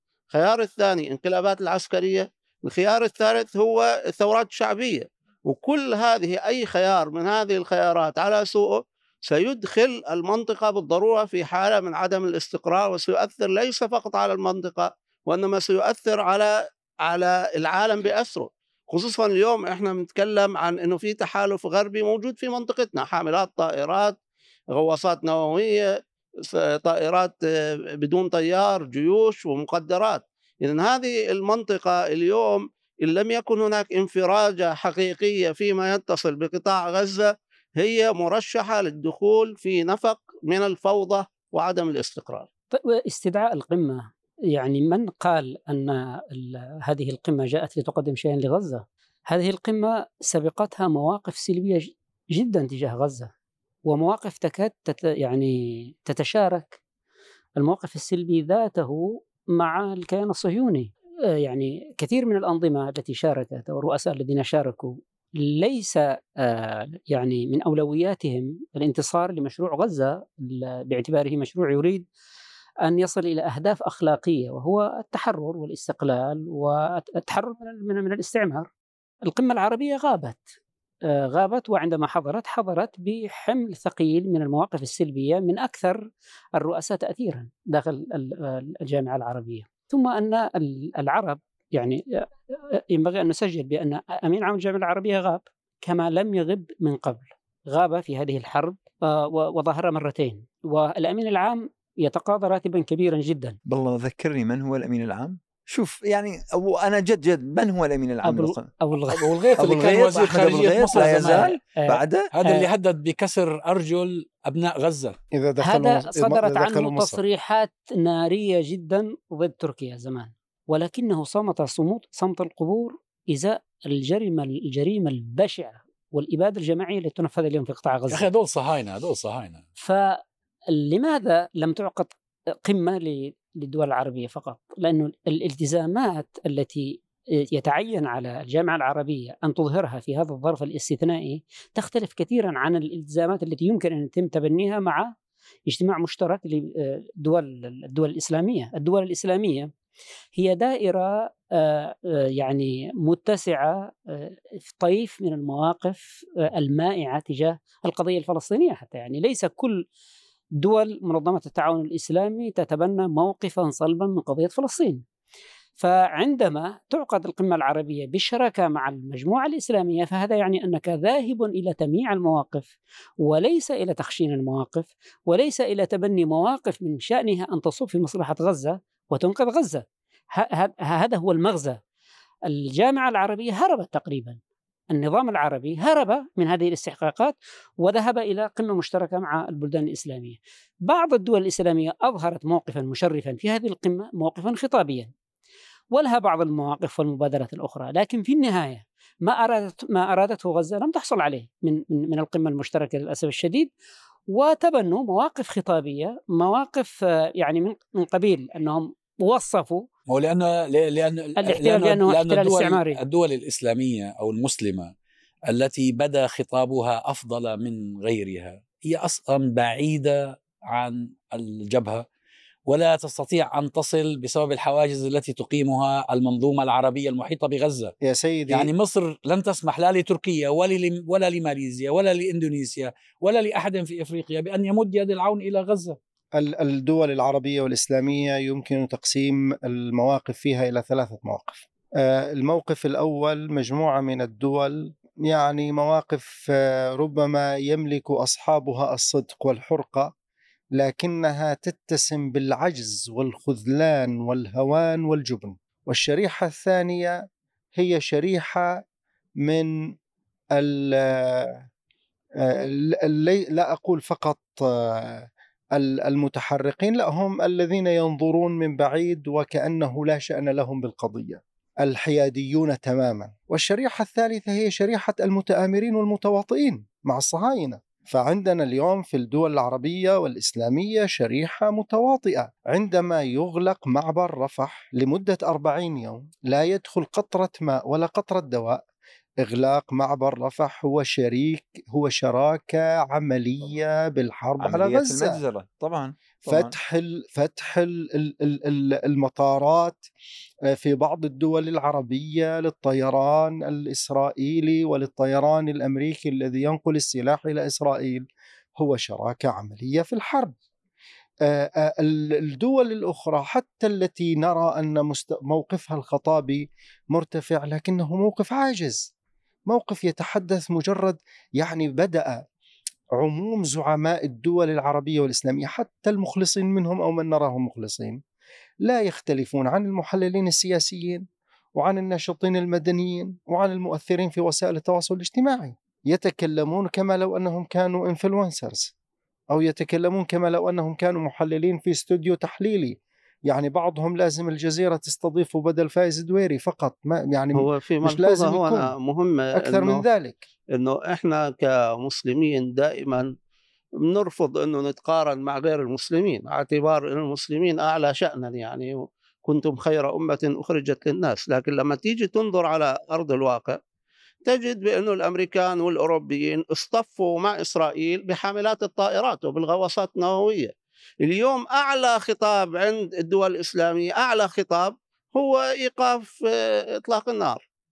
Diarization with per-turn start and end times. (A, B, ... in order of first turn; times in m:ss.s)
0:00.3-0:16.5 A
0:17.0-0:24.2 A
0:24.7-0:25.9 A
0:26.4-0:42.5 A
0:42.7-0:53.3 B
0:53.9-0:56.8 B
0:57.6-1:12.1 B
1:12.8-1:18.7 B
1:19.3-1:20.5 B
1:21.1-1:43.6 B
1:43.7-1:48.7 C
1:48.2-1:49.9 B
1:49.1-1:51.6 D
1:49.6-1:52.3 C
1:51.0-1:52.7 B
1:52.3-1:55.2 D
1:55.3-1:57.2 E
1:55.6-2:08.3 B
2:08.1-2:09.6 D
2:09.8-2:12.1 B
2:12.6-2:25.2 B
2:25.7-2:29.7 B
2:30.3-2:39.9 B
2:40.6-2:45.0 B
2:45.8-3:01.8 B
3:02.5-3:04.4 B
3:04.9-3:15.1 B
3:15.9-3:23.7 B
3:24.3-3:29.9 B
3:30.1-3:34.9 D
3:31.4-3:33.0 B
3:35.5-3:42.1 D
3:42.7-3:47.9 D
3:48.0-3:48.7 E
3:48.5-3:56.0 D
3:56.4-4:10.1 E
4:10.8-4:17.2 E
4:17.8-4:18.8 E
4:19.4-4:19.7 E
4:20.6-4:21.6 E
4:22.4-4:48.8 E
4:49.4-4:55.4 E
4:54.6-4:56.7 C
4:56.5-5:00.0 E
5:00.7-5:08.3 E
5:08.8-5:10.6 E
5:11.4-5:19.1 E
5:19.7-5:22.4 E
5:23.2-5:28.2 E
5:28.8-5:38.9 E
5:39.5-5:48.9 E
5:47.6-5:50.0 A
5:49.6-5:50.4 E
5:50.7-5:53.3 A
5:54.0-6:03.8 A
6:04.5-6:17.6 A